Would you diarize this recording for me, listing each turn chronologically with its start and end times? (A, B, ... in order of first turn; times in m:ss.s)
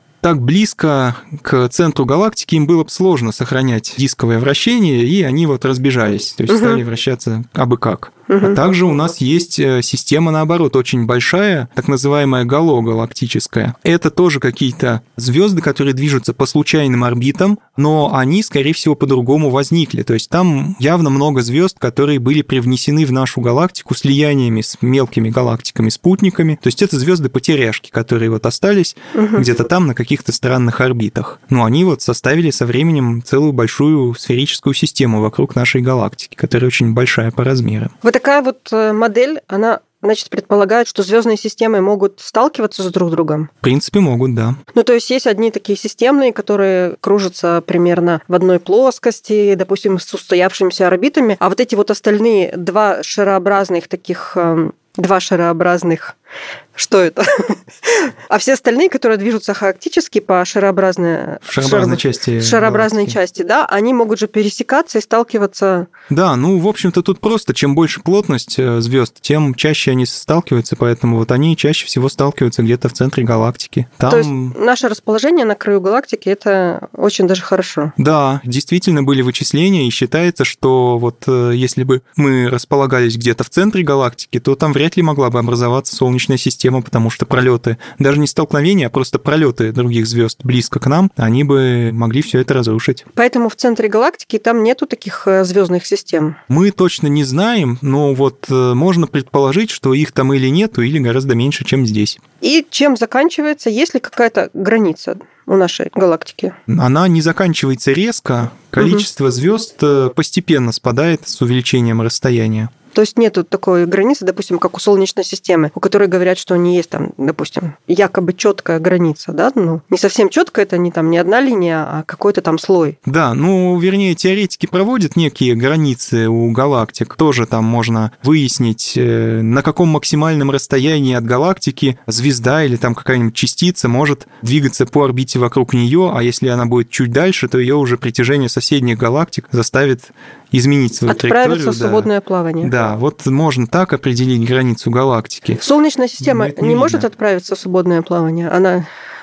0:00.2-0:37.9 A
0:06.5-0:06.8 B
0:08.3-0:08.6 B
0:29.2-0:29.5 B
0:38.0-0:43.5 B
0:43.6-0:44.6 A
0:44.7-0:56.2 B
0:56.8-1:05.9 B
1:01.5-1:03.2 A
1:06.1-1:14.6 A
1:14.1-1:18.0 B
1:18.0-1:33.0 A
1:33.2-1:36.4 B
1:36.5-1:42.2 A
1:42.4-1:46.6 B
1:46.7-1:52.7 A
1:48.8-1:49.0 B
1:53.0-2:03.0 B
2:03.1-2:22.1 A
2:21.1-2:22.7 B
2:22.6-2:25.6 A
2:25.6-2:28.9 B
2:26.2-2:27.1 A